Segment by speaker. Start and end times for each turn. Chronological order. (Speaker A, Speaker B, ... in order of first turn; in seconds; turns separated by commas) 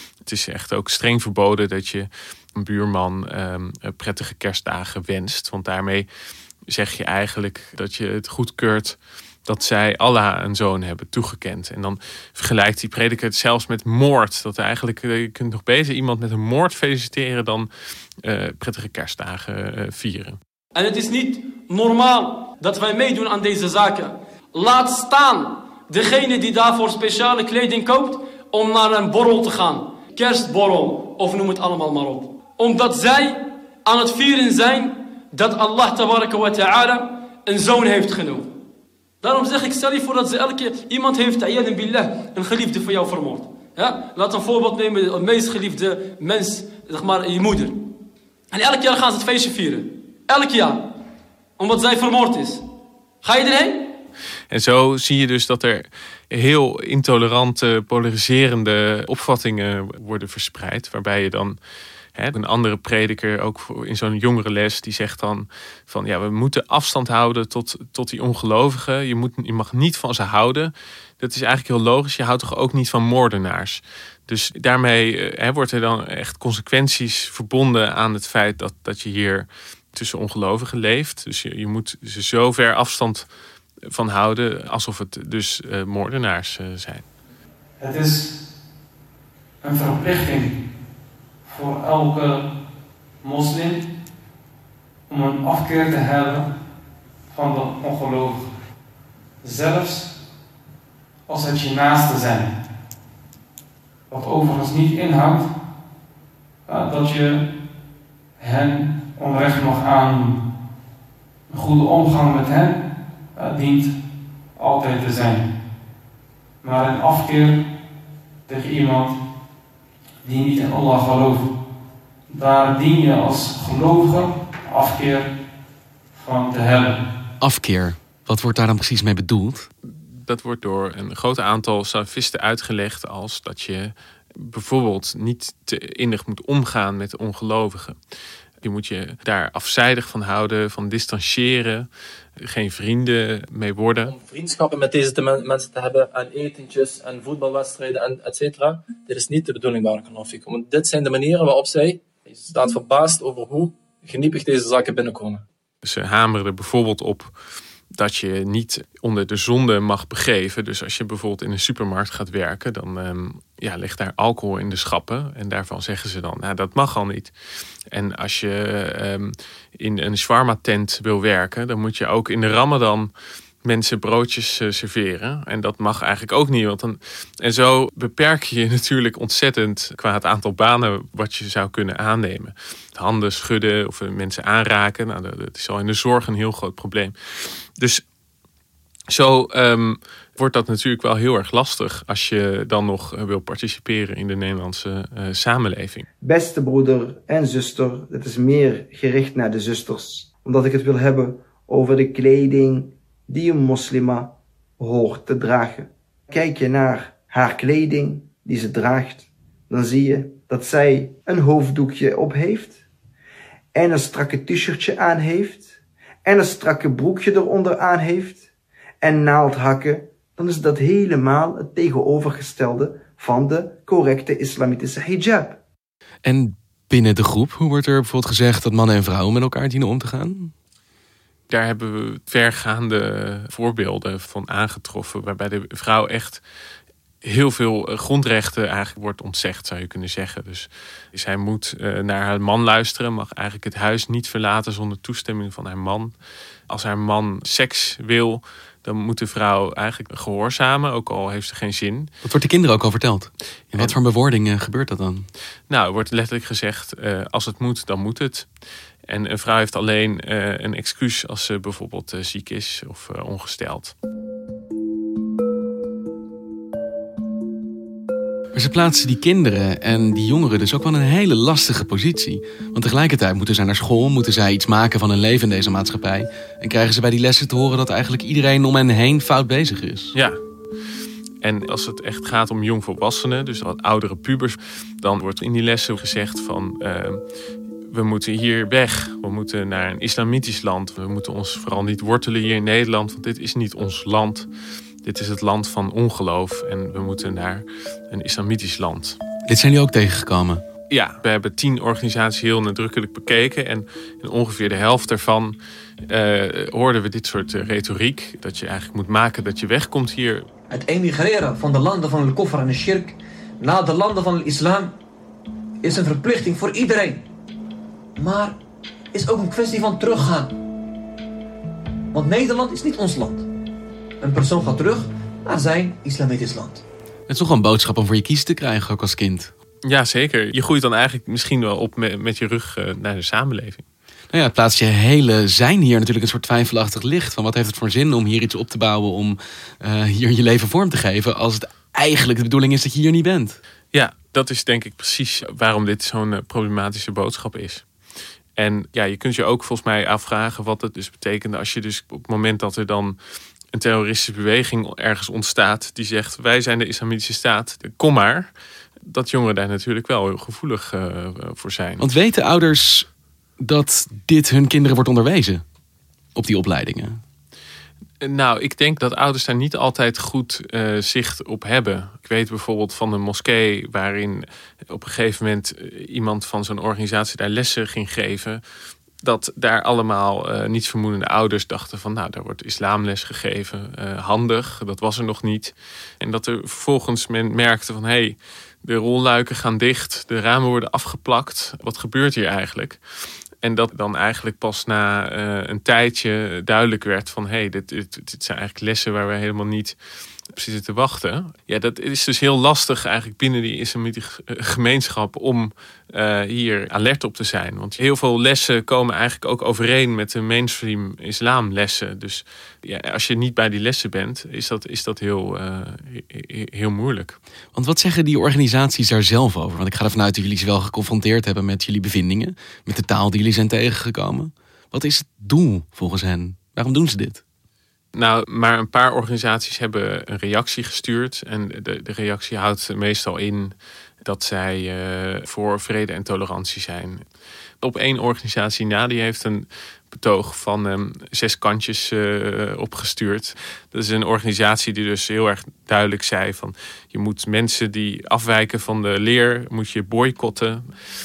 Speaker A: 0.2-6.1, Speaker A: 6.7-17.7, Speaker A: 18.2-20.4, Speaker B: 20.7-38.5, Speaker B: 39.2-47.8, Speaker B: 48.5-50.8, Speaker B: 51.6-52.6, Speaker B: 53.2-53.8, Speaker A: 54.5-61.6, Speaker A: 62.2-83.3, Speaker A: 83.9-87.0, Speaker C: 87.8-88.3, Speaker C: 89.6-90.6, Speaker C: 91.5-92.5, Speaker C: 93.2-93.8, Speaker C: 95.1-96.5, Speaker C: 97.3-98.5, Speaker C: 99.4-100.1, Speaker C: 101.3-102.5, Speaker C: 104.1-105.5, Speaker C: 106.7-107.5, Speaker C: 108.4-110.4, Speaker C: 111.5-112.8, Speaker C: 113.3-113.9, Speaker C: 114.6-115.5, Speaker C: 116.6-117.6, Speaker C: 118.5-119.2, Speaker C: 120.2-121.5, Speaker C: 122.3-125.3, Speaker C: 126.1-127.0, Speaker D: 127.4-129.7, Speaker A: 129.9-138.0, Speaker A: 138.6-141.9, Speaker A: 142.4-144.1, Speaker E: 144.1-155.5, Speaker A: 155.8-157.3, Speaker A: 157.9-167.3, Speaker A: 167.9-173.1, Speaker A: 173.6-187.1, Speaker A: 187.8-188.0, Speaker A: 189.1-196.1, Speaker F: 196.2-212.8, Speaker F: 213.7-215.7, Speaker F: 216.2-218.5, Speaker F: 219.0-225.6, Speaker D: 226.2-230.5, Speaker A: 231.5-236.4, Speaker A: 237.2-246.1, Speaker A: 246.7-252.1, Speaker D: 252.2-255.3, Speaker A: 255.7-258.5, Speaker A: 259.1-263.9, Speaker D: 268.6-280.1, Speaker A: 281.4-287.2, Speaker A: 287.9-294.5, Speaker A: 295.0-299.2, Speaker D: 299.5-300.6, Speaker A: 300.9-305.6, Speaker A: 306.1-310.5, Speaker G: 310.7-314.9, Speaker G: 315.8-317.2, Speaker G: 318.2-318.6, Speaker G: 319.1-320.5, Speaker G: 322.1-323.5, Speaker G: 324.2-326.8, Speaker D: 327.3-329.5, Speaker A: 329.9-333.9, Speaker D: 334.3-343.6, Speaker A: 343.9-347.9, Speaker A: 348.6-353.2, Speaker A: 353.7-358.5, Speaker A: 359.1-362.1, Speaker D: 362.0-363.1, Speaker D: 363.6-365.6, Speaker D: 366.4-367.2, Speaker A: 368.2-378.6, Speaker A: 379.2-393.0, Speaker A: 393.6-400.0, Speaker A: 400.5-417.4, Speaker D: 417.7-427.4, Speaker A: 428.1-437.2, Speaker A: 437.8-450.8